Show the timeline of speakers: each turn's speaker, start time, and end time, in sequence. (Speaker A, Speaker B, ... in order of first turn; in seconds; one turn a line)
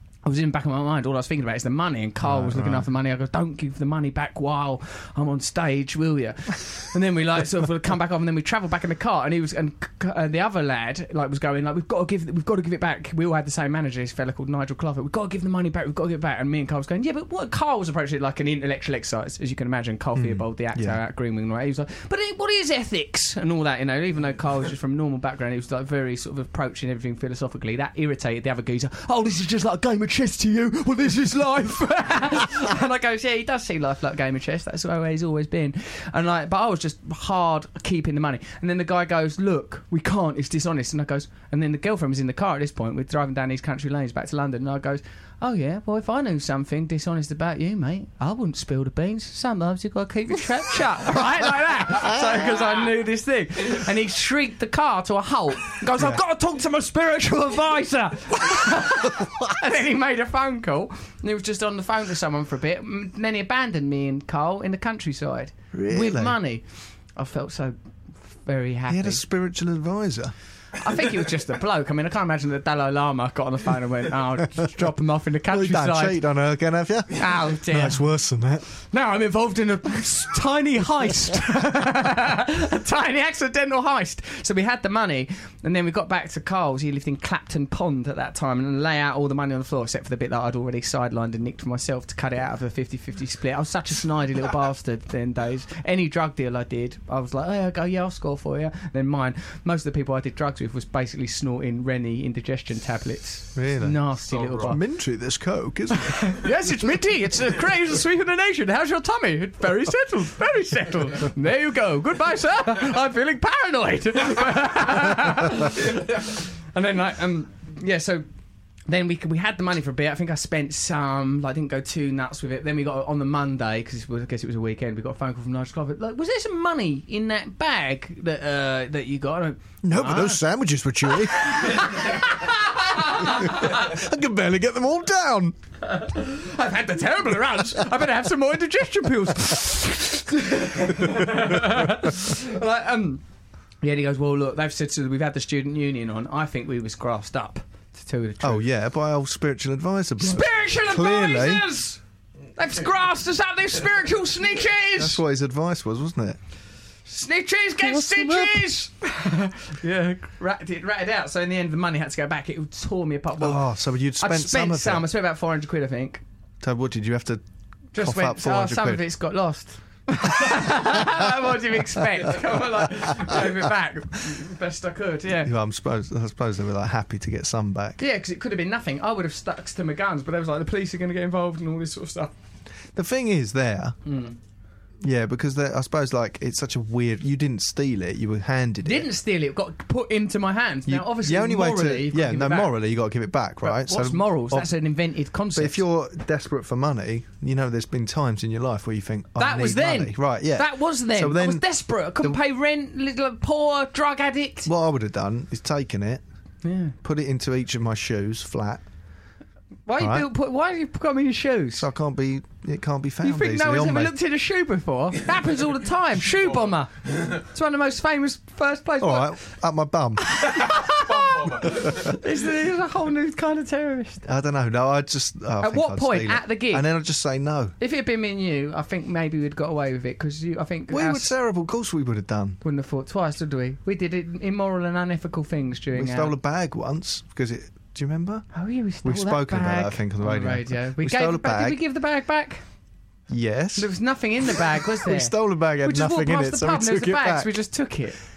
Speaker A: 0.2-66.6
Speaker B: 2.2-2.9
Speaker B: 20.1-21.0
Speaker B: 65.7-66.4
Speaker A: 67.2-67.7
Speaker A: 68.3-69.2
Speaker B: 68.9-70.3
Speaker A: 70.8-76.2
Speaker B: 75.5-78.7
Speaker A: 77.1-78.0
Speaker A: 78.9-104.8
Speaker B: 103.5-104.0
Speaker B: 104.5-106.2
Speaker A: 106.0-118.2
Speaker A: 118.9-130.4
Speaker B: 129.8-132.2
Speaker A: 131.1-133.9
Speaker B: 133.0-135.6
Speaker A: 135.8-143.2
Speaker A: 143.8-148.6
Speaker B: 148.4-151.7
Speaker A: 150.2-152.0
Speaker A: 152.6-155.2
Speaker B: 154.9-156.4
Speaker A: 157.1-163.7
Speaker B: 157.8-158.7
Speaker B: 163.4-165.1
Speaker A: 164.2-166.2
Speaker B: 166.6-167.4
Speaker A: 167.9-175.5
Speaker B: 168.0-169.1
Speaker B: 175.3-178.0
Speaker A: 178.0-182.3
Speaker B: 182.9-183.9
Speaker A: 184.1-184.3
Speaker B: 185.0-189.1
Speaker A: 188.8-192.7
Speaker B: 190.9-194.7
Speaker A: 193.6-195.8
Speaker B: 195.5-201.6
Speaker A: 199.3-204.7
Speaker B: 204.7-206.2
Speaker A: 206.6-206.9
Speaker B: 207.0-208.8
Speaker A: 209.8-211.9
Speaker B: 210.0-210.3
Speaker B: 211.8-214.1
Speaker A: 213.2-219.4
Speaker B: 219.0-220.3
Speaker A: 220.2-224.2
Speaker B: 221.6-222.1
Speaker B: 224.2-227.7
Speaker A: 225.6-226.8
Speaker A: 227.8-231.3
Speaker B: 230.9-232.6
Speaker A: 232.6-236.3
Speaker B: 235.9-238.4
Speaker A: 238.5-242.6
Speaker B: 239.0-241.8
Speaker B: 243.3-243.9
Speaker A: 243.8-248.2
Speaker B: 244.5-247.6